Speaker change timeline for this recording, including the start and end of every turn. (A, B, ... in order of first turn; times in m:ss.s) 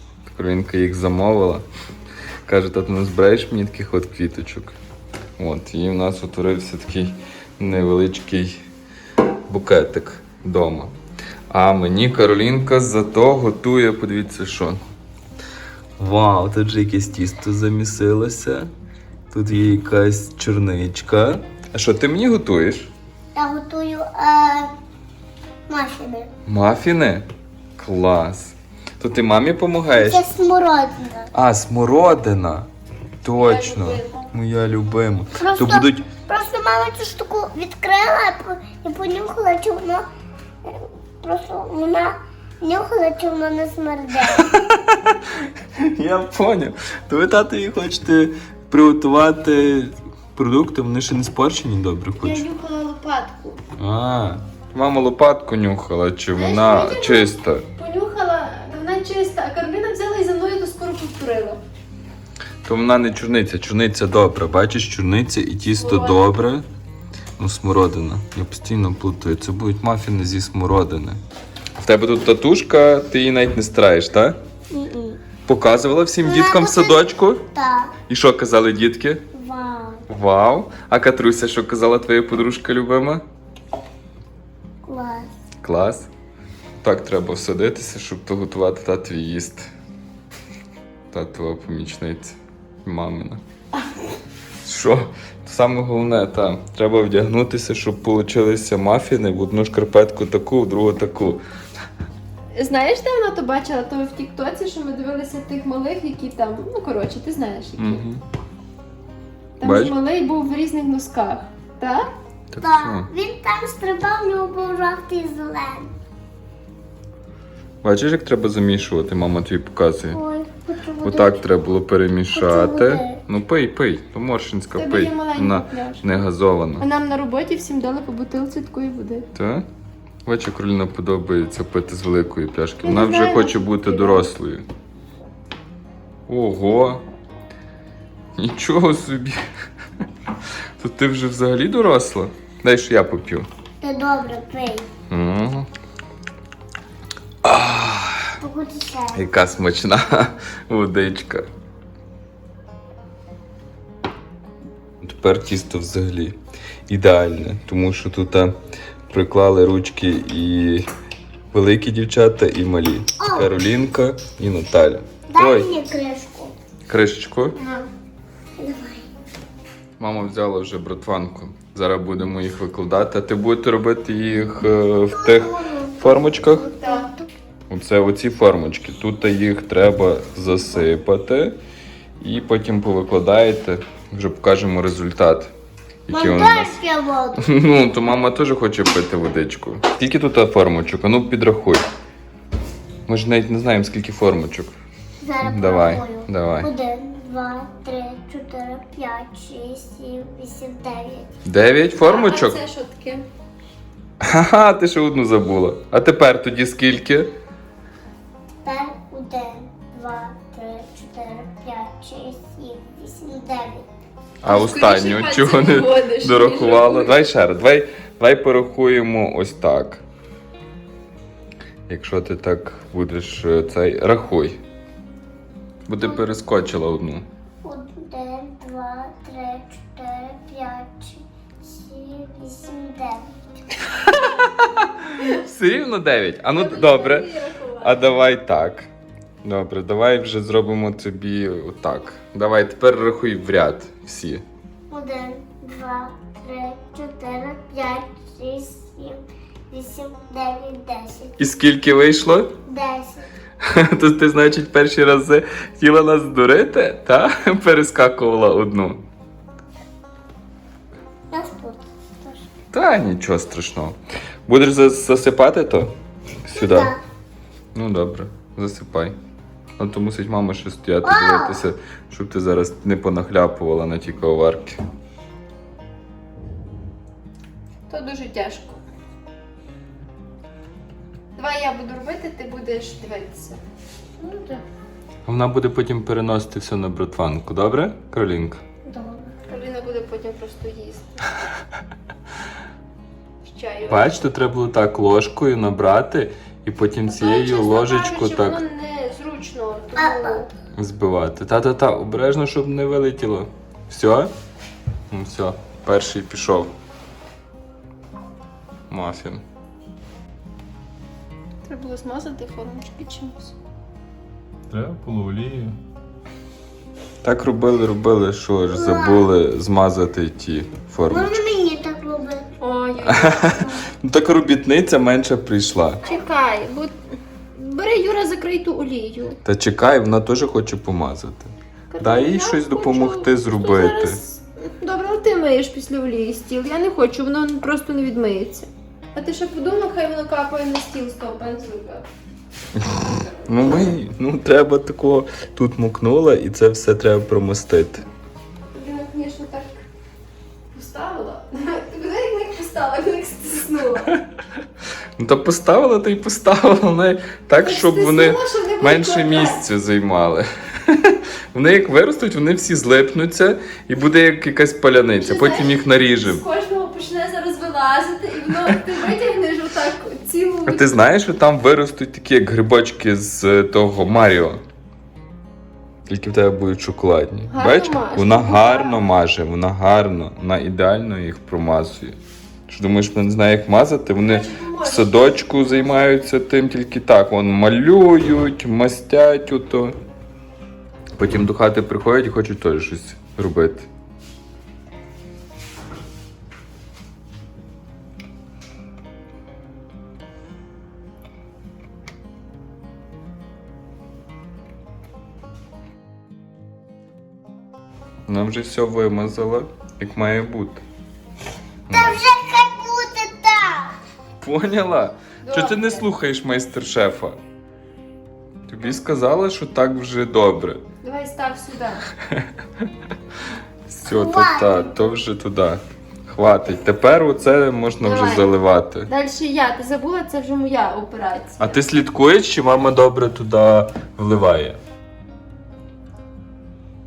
0:00.3-0:01.6 A
0:02.5-0:04.8 A
0:05.4-0:08.6 A
0:09.5-0:10.9 A
0:11.5-0:14.8 A
0:16.0-0:18.7 A
0:19.3-0:22.9 A
0:23.4-0:24.7 B
0:25.7-0:26.3 B
0:26.5-0:27.2 A
0:27.8-0:30.3 A
0:29.9-0:31.3 B
0:31.3-0:32.7 A
0:33.2-0:36.1 A
0:33.4-0:34.3 C
0:35.4-0:40.0 B
0:40.6-0:44.5 B
0:44.4-0:52.4 A
0:52.2-0:53.6 C
0:53.8-0:57.6 A
0:56.4-1:01.6 C
1:02.6-1:06.7 A
1:05.8-1:06.4 C
1:07.4-1:11.2 A
1:11.8-1:14.4 A
1:14.7-1:15.2 B
1:15.4-1:17.4 A
1:16.2-1:18.0 B
1:18.1-1:19.2 A
1:19.3-1:20.1 B
1:20.1-1:23.2 A
1:24.8-1:25.3 B
1:25.6-1:26.1 A
1:26.8-1:29.7 A
1:31.1-1:33.4 A
1:34.6-1:41.4 A
1:42.5-1:48.0 C
1:47.8-1:48.2 A
1:49.6-1:52.1 C
1:49.6-1:50.0 A
1:52.5-1:53.1 A
1:52.6-1:55.9 B
1:57.8-2:00.2 A
2:00.1-2:01.4 B
2:01.0-2:06.8 A
2:02.3-2:03.2 B
2:04.8-2:06.0 C
2:06.8-2:09.3 C
2:09.4-2:09.7 A
2:10.3-2:14.6 A
2:12.8-2:14.2 C
2:16.3-2:17.0 A
2:18.4-2:19.4 A
2:20.8-2:23.5 A
2:23.8-2:24.9 B
2:25.1-2:25.7 A
2:27.4-2:28.4 A
2:28.4-2:29.2 B
2:29.1-2:31.5 A
2:35.0-2:38.5 A
2:39.1-2:40.9 A
2:41.5-2:45.8 A
2:43.2-2:43.5 B
2:45.3-2:46.6 B
2:46.9-2:47.6 A
2:47.6-2:47.9 C
2:48.6-2:49.1 B
2:50.0-2:56.7 A
2:55.1-2:57.3 B
2:56.6-2:57.1 C
2:57.7-3:01.6 A
3:02.2-3:05.5 A
3:06.1-3:06.8 A
3:06.1-3:07.5 B
3:07.4-3:11.9 A
3:13.1-3:14.7 A
3:15.2-3:21.3 B
3:15.4-3:16.7 A
3:21.4-3:22.6 A
3:22.0-3:23.3 C
3:24.2-3:27.3 A
3:28.6-3:33.9 B
3:34.4-3:40.0 A
3:34.4-3:37.2 C
3:41.9-3:44.6 A
3:45.9-3:47.3 A
3:46.0-3:46.3 B
3:47.6-3:53.3 B
3:53.9-3:57.3 A
3:56.5-3:58.0 C
3:57.8-3:58.9 A
3:59.4-4:04.4 A
4:04.9-4:11.4 B
4:11.4-4:12.6 A
4:12.7-4:13.3 B
4:13.6-4:19.0 A
4:21.3-4:22.4 B
4:22.7-4:25.9 A
4:26.5-4:27.0 A
4:26.5-4:27.0 B
4:27.7-4:29.2 A
4:29.8-4:34.8 A
4:31.0-4:31.7 B
4:37.9-4:38.8 C
4:41.4-4:43.6 C
4:44.2-4:44.6 B
4:45.3-4:48.6 A
4:48.9-4:49.3 B
4:49.5-4:51.2 C
4:53.4-4:54.2 C
4:53.9-4:58.6 A
4:57.1-5:00.5 C
5:00.0-5:00.4 B
5:00.8-5:04.3 A
5:05.1-5:06.7 A
5:08.9-5:09.4 A
5:11.6-5:13.5 C
5:14.7-5:15.8 A
5:17.2-5:21.4 A
5:18.7-5:19.3 B
5:21.1-5:22.5 B
5:22.6-5:23.7 C
5:23.0-5:26.0 A
5:26.0-5:26.9 C
5:27.6-5:29.4 C
5:29.4-5:34.2 A
5:31.9-5:42.1 C
5:42.8-5:48.1 A
5:48.7-5:49.9 C
5:50.7-5:54.1 C
5:55.2-6:06.4 A
5:57.6-5:59.6 C
6:05.2-6:10.9 C
6:10.7-6:14.6 A
6:16.1-6:22.2 A
6:17.5-6:19.0 C
6:22.7-6:30.0 A
6:24.2-6:26.2 C
6:31.2-6:33.9 A
6:48.3-6:50.8 A
6:51.9-6:52.2 A
6:51.9-6:53.9 B
6:54.4-6:57.4 A
6:55.4-6:56.1 C
6:58.7-7:00.8 A
7:01.0-7:02.1 C
7:03.9-7:09.1 A
7:04.0-7:04.9 B
7:08.0-7:08.6 C
7:09.1-7:11.8 C
7:11.6-7:14.8 A